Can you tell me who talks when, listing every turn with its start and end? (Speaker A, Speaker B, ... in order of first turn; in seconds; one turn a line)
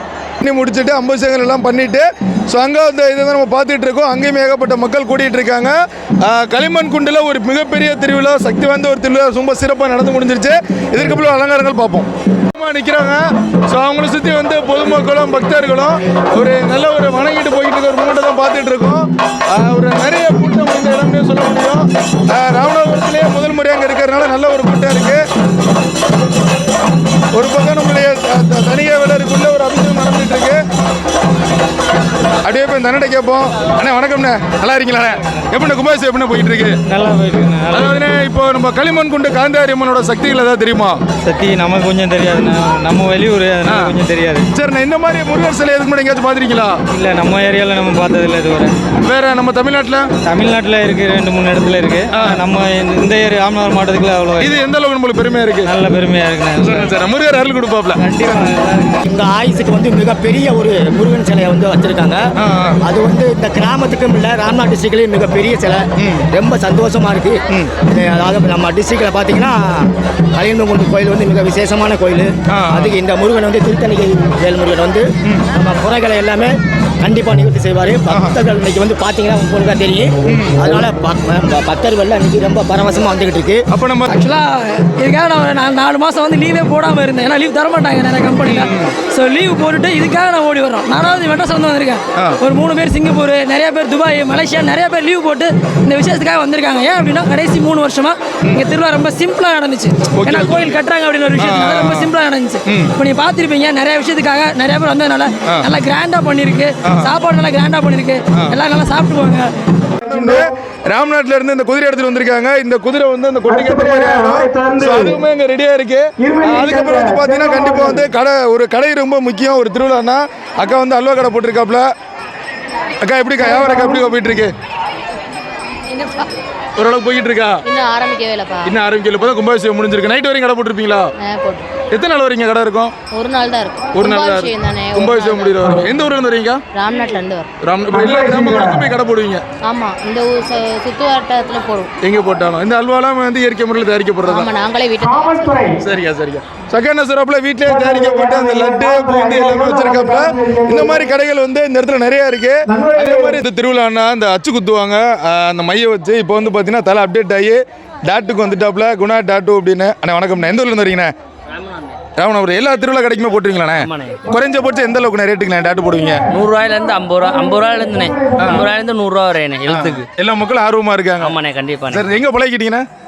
Speaker A: 0.4-25.2
Speaker A: 27.3-30.6
Speaker A: 32.4-36.8
Speaker B: 36.9-38.0
Speaker A: 37.7-41.0
Speaker B: 41.2-44.5
Speaker A: 43.6-43.9
Speaker A: 44.5-46.8
Speaker B: 46.9-48.8
Speaker A: 49.0-50.1
Speaker B: 50.3-54.5
Speaker A: 52.1-52.4
Speaker A: 54.4-55.7
Speaker B: 55.7-56.9
Speaker A: 56.6-58.0
Speaker B: 58.0-59.0
Speaker C: 59.0-62.2
Speaker A: 62.4-62.8
Speaker C: 62.9-83.6
Speaker A: 66.0-66.2
Speaker A: 72.5-72.9
Speaker A: 78.1-78.4
Speaker A: 80.3-80.6
Speaker A: 83.7-84.1
Speaker D: 84.1-109.5
Speaker A: 88.5-88.9
Speaker A: 100.2-100.8
Speaker A: 101.4-102.1
Speaker A: 102.7-102.9
Speaker A: 106.8-107.1
Speaker A: 110.0-121.9
Speaker A: 123.0-124.5
Speaker A: 126.8-127.6
Speaker E: 127.7-128.7
Speaker A: 128.7-131.1
Speaker E: 131.2-131.7
Speaker A: 131.9-132.9
Speaker E: 133.1-135.8
Speaker A: 133.9-136.6
Speaker E: 136.7-137.5
Speaker A: 137.6-139.4
Speaker E: 139.6-141.9
Speaker A: 142.0-144.5
Speaker E: 144.3-145.7
Speaker A: 145.8-161.1
Speaker F: 161.5-161.8
Speaker A: 162.2-166.2
Speaker F: 163.8-164.2
Speaker F: 166.3-170.1
Speaker A: 168.4-168.7
Speaker A: 169.7-171.4
Speaker F: 171.2-172.1
Speaker A: 171.9-172.8